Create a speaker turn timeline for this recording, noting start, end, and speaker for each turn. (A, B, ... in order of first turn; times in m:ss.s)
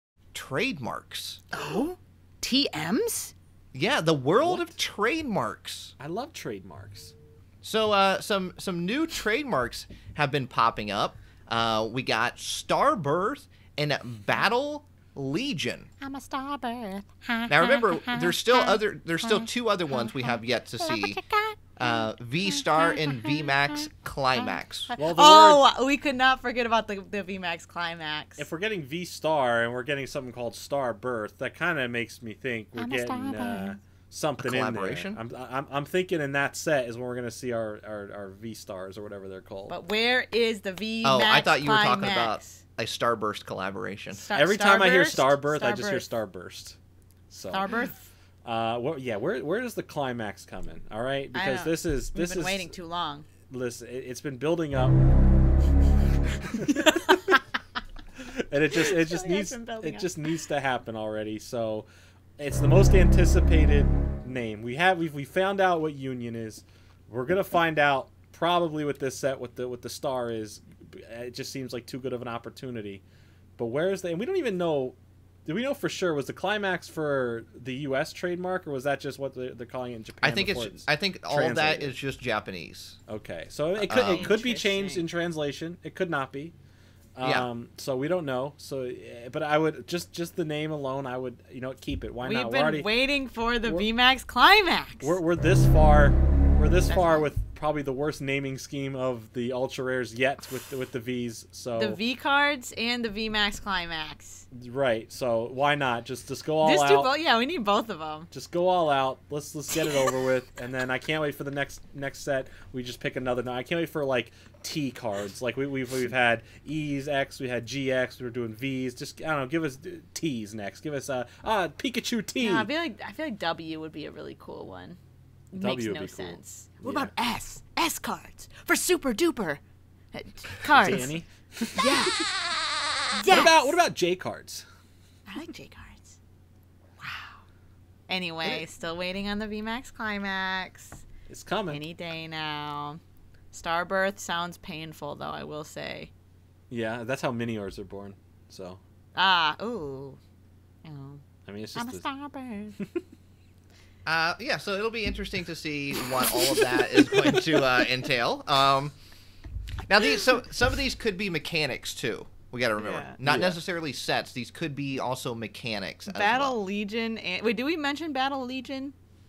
0:00.3-0:01.4 A
0:01.5-0:03.3 B
0:03.7-0:05.9 A
0:04.4-0:04.8 C
0:06.0-0:07.1 C
0:07.6-0:15.9 A
0:16.0-0:17.5 B
0:17.5-0:21.2 A
0:20.8-0:21.5 B
0:21.8-0:24.9 A
0:25.0-0:25.6 C
0:25.0-0:28.4 B
0:28.4-0:39.8 C
0:32.8-0:33.7 B
0:34.4-0:35.2 A
0:39.7-0:42.6 B
0:41.0-0:44.3 A
0:44.1-0:46.0 B
0:44.3-0:46.8 C
0:47.3-0:47.7 C
0:47.5-0:48.0 B
0:48.4-0:52.7 C
0:51.3-0:53.3 B
0:53.5-0:55.0 C
0:56.5-0:57.4 C
0:58.2-1:01.9 C
0:58.8-1:00.1 B
1:02.4-1:13.0 C
1:13.6-1:21.9 C
1:20.2-1:23.0 A
1:23.1-1:26.6 C
1:23.8-1:24.4 A
1:24.0-1:25.0 B
1:27.2-1:32.9 C
1:27.2-1:27.5 A
1:32.2-1:35.2 B
1:35.0-1:42.0 C
1:36.9-1:37.3 B
1:41.8-1:44.4 B
1:44.5-1:47.1 C
1:46.6-1:48.3 B
1:48.3-2:02.7 C
2:02.4-2:05.0 B
2:05.5-2:09.6 B
2:05.6-2:07.1 C
2:10.1-2:11.1 B
2:10.7-2:12.3 C
2:11.8-2:12.3 B
2:13.1-2:13.8 B
2:13.3-2:14.7 C
2:15.3-2:16.2 B
2:17.0-2:17.3 B
2:18.1-2:21.0 B
2:21.3-2:21.8 C
2:21.7-2:23.0 B
2:23.5-2:26.1 B
2:26.7-2:28.8 C
2:29.2-2:30.2 B
2:30.8-2:31.2 B
2:31.5-2:32.1 C
2:31.8-2:32.8 B
2:34.0-2:39.0 A
2:39.8-2:46.6 A
2:42.8-2:43.2 B
2:43.2-2:43.6 C
2:46.1-2:49.0 B